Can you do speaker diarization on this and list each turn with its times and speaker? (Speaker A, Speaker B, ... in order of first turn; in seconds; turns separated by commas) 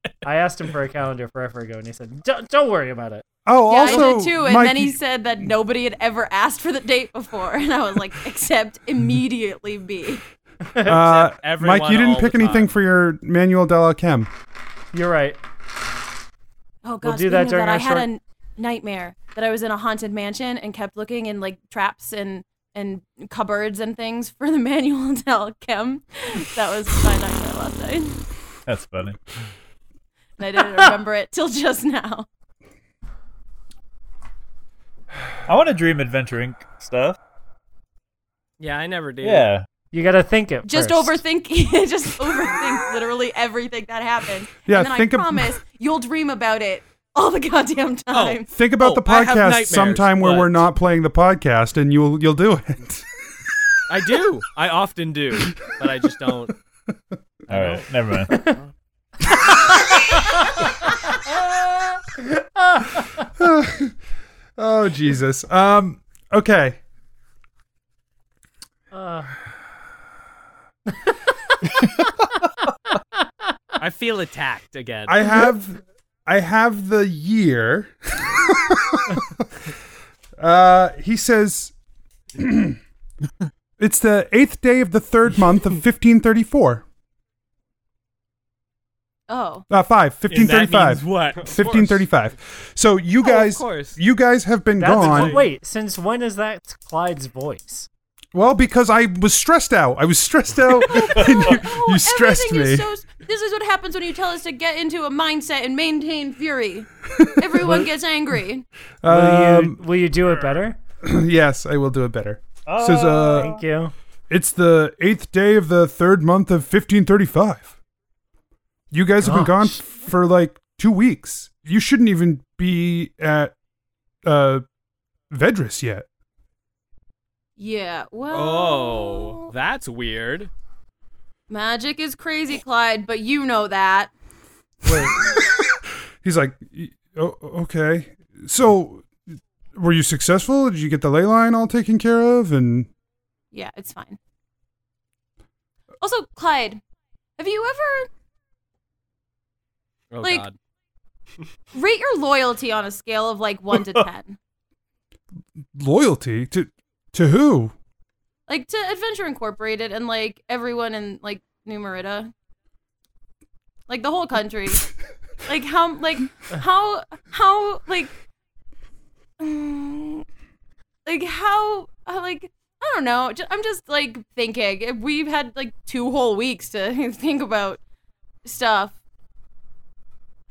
Speaker A: 0.2-3.2, Speaker B: 3.5-5.0, Speaker C: 3.7-10.2, Speaker B: 10.8-14.3, Speaker D: 10.9-12.8, Speaker A: 14.9-15.4, Speaker C: 16.9-28.2, Speaker A: 17.0-18.1, Speaker E: 28.7-29.2, Speaker C: 30.4-32.3, Speaker E: 35.5-37.2, Speaker D: 38.6-39.5, Speaker E: 39.2-39.7, Speaker A: 39.9-41.2, Speaker C: 40.6-48.5, Speaker B: 44.7-45.6, Speaker D: 48.1-50.7, Speaker B: 48.5-53.0, Speaker D: 53.9-56.5, Speaker D: 57.5-58.6, Speaker E: 57.5-58.5, Speaker A: 62.2-63.0, Speaker B: 63.4-64.0, Speaker B: 64.6-66.8, Speaker A: 68.9-69.3, Speaker D: 73.8-75.2, Speaker B: 75.1-79.4, Speaker B: 80.4-81.7, Speaker B: 82.4-82.8, Speaker B: 83.8-86.8, Speaker C: 89.3-89.7, Speaker B: 89.7-95.4, Speaker D: 90.3-91.9, Speaker D: 93.2-94.0, Speaker A: 94.8-97.9, Speaker D: 94.9-95.4, Speaker B: 98.3-102.9, Speaker C: 101.1-108.7, Speaker B: 107.1-107.9, Speaker B: 109.0-109.8, Speaker A: 109.1-110.8, Speaker B: 111.0-113.5, Speaker E: 112.7-113.6, Speaker A: 113.3-113.9, Speaker B: 114.3-117.7, Speaker B: 118.9-123.5, Speaker A: 119.2-119.8, Speaker B: 124.2-124.6, Speaker B: 125.3-126.1, Speaker C: 127.6-129.5, Speaker D: 128.3-130.5, Speaker C: 131.5-134.1, Speaker B: 134.9-135.2, Speaker B: 136.2-139.1, Speaker B: 139.8-142.9, Speaker C: 143.5-144.2, Speaker C: 146.0-146.8, Speaker C: 147.4-148.1, Speaker D: 150.1-150.6, Speaker C: 151.7-154.4, Speaker B: 155.8-157.7, Speaker C: 158.5-162.3, Speaker C: 163.9-164.9, Speaker C: 165.5-168.1, Speaker C: 169.4-170.2, Speaker C: 171.1-177.8, Speaker C: 178.4-178.9